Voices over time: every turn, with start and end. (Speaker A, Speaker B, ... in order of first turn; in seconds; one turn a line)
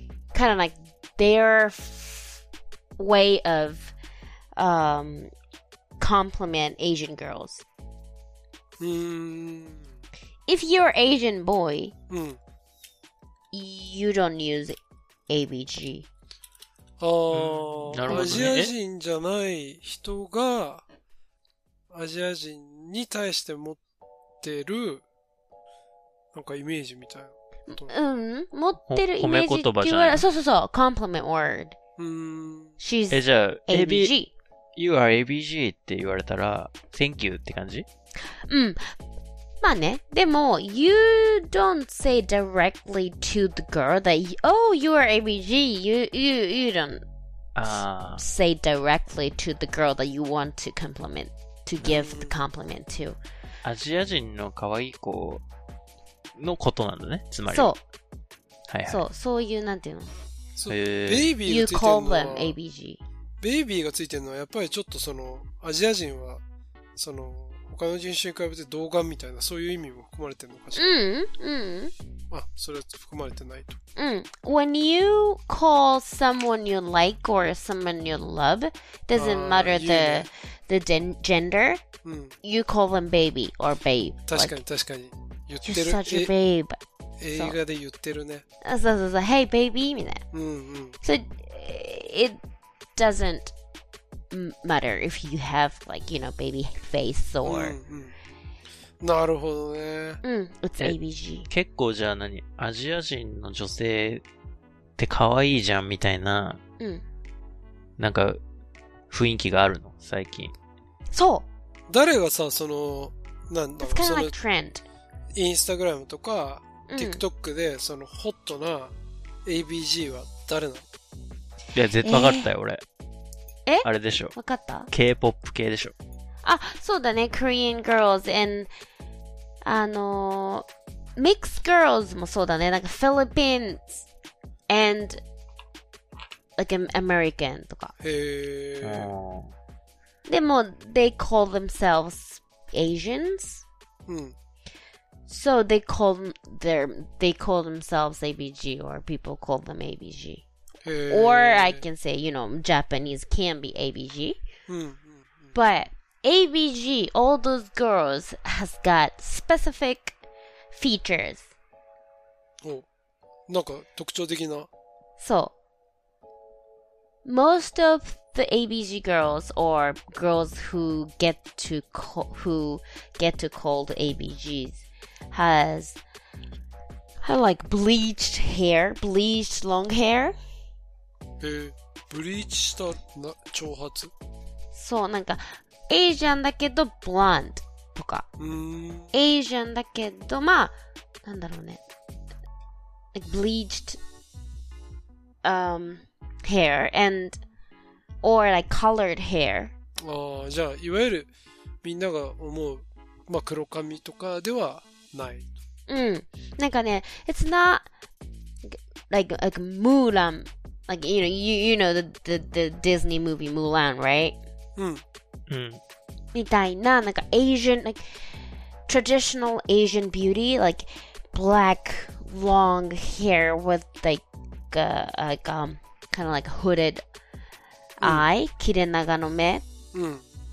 Speaker A: 0.3-2.4
Speaker A: 3.0-3.9
Speaker A: 4.6-5.3
Speaker A: 6.0-7.6
Speaker B: 8.8-9.9
Speaker A: 10.5-11.9
Speaker B: 12.1-12.4
Speaker A: 13.5-14.8
Speaker A: 15.3-16.1
Speaker B: 17.0-20.8
Speaker C: 17.3-18.7
Speaker A: 18.1-18.5
Speaker B: 21.9-23.8
Speaker B: 24.4-25.0
Speaker B: 26.3-27.9
Speaker A: 27.7-31.8
Speaker C: 28.9-30.2
Speaker B: 32.0-32.8
Speaker A: 32.8-34.3
Speaker C: 33.1-34.1
Speaker C: 34.8-37.9
Speaker A: 38.5-38.8
Speaker A: 39.6-47.0
Speaker C: 47.6-48.2
Speaker A: 48.2-53.2
Speaker B: 51.9-52.3
Speaker C: 53.6-55.4
Speaker C: 56.4-57.7
Speaker A: 57.5-57.8
Speaker C: 58.7-59.0
Speaker A: 58.9-60.1
Speaker B: 60.6-62.5
Speaker C: 60.7-61.3
Speaker A: 61.5-63.0
Speaker B: 63.4-66.4
Speaker B: 67.0-71.0
Speaker A: 70.8-71.9
Speaker B: 72.3-73.8
Speaker A: 74.0-81.8
Speaker B: 79.2-80.3
Speaker B: 82.0-82.3
Speaker A: 82.4-84.5
Speaker B: 84.3-86.3
Speaker A: 85.7-86.8
Speaker B: 87.2-88.4
Speaker A: 88.6-90.2
Speaker B: 90.3-91.0
Speaker A: 91.0-92.4
Speaker A: 93.0-93.5
Speaker A: 94.3-97.8
Speaker B: 97.4-98.2
Speaker B: 99.0-100.2
Speaker A: 100.2-101.5
Speaker C: 101.5-104.2
Speaker C: 105.0-106.6
Speaker C: 108.0-108.4
Speaker C: 109.1-110.5
Speaker A: 111.1-111.5
Speaker B: 111.9-114.3
Speaker A: 113.8-114.8
Speaker B: 115.3-118.9
Speaker A: 116.9-117.2
Speaker B: 119.5-120.8
Speaker C: 121.7-122.8
Speaker A: 122.0-122.5
Speaker A: 123.7-124.9
Speaker C: 123.8-124.4
Speaker C: 124.9-125.9
Speaker A: 126.4-128.7
Speaker A: 129.7-130.7
Speaker A: 131.2-134.1
Speaker A: 134.7-135.2
Speaker A: 136.6-137.9
Speaker B: 138.0-139.1
Speaker C: 138.8-139.5
Speaker A: 140.3-143.6
Speaker B: 144.1-144.3
Speaker A: 145.3-150.4
Speaker B: 150.8-151.8
Speaker A: 151.1-154.4
Speaker B: 154.7-155.6
Speaker A: 155.5-160.2
Speaker A: 160.7-161.5
Speaker B: 163.5-164.7
Speaker A: 165.2-165.5
Speaker A: 167.2-176.0
Speaker A: 177.2-180.4
Speaker B: 181.4-184.1
Speaker A: 184.7-188.3
Speaker B: 188.4-189.1
Speaker A: 189.1-190.7
Speaker A: 191.2-191.8
Speaker A: 193.2-194.0
Speaker A: 195.4-197.4
Speaker A: 198.2-199.8
Speaker B: 200.0-201.3
Speaker B: 201.8-205.5
Speaker A: 205.9-207.9
Speaker A: 208.7-214.4
Speaker B: 214.8-215.0
Speaker C: 215.5-215.8
Speaker A: 216.3-218.1
Speaker A: 218.9-227.0
Speaker A: 228.0-229.7
Speaker B: 228.0-228.3
Speaker B: 229.9-230.2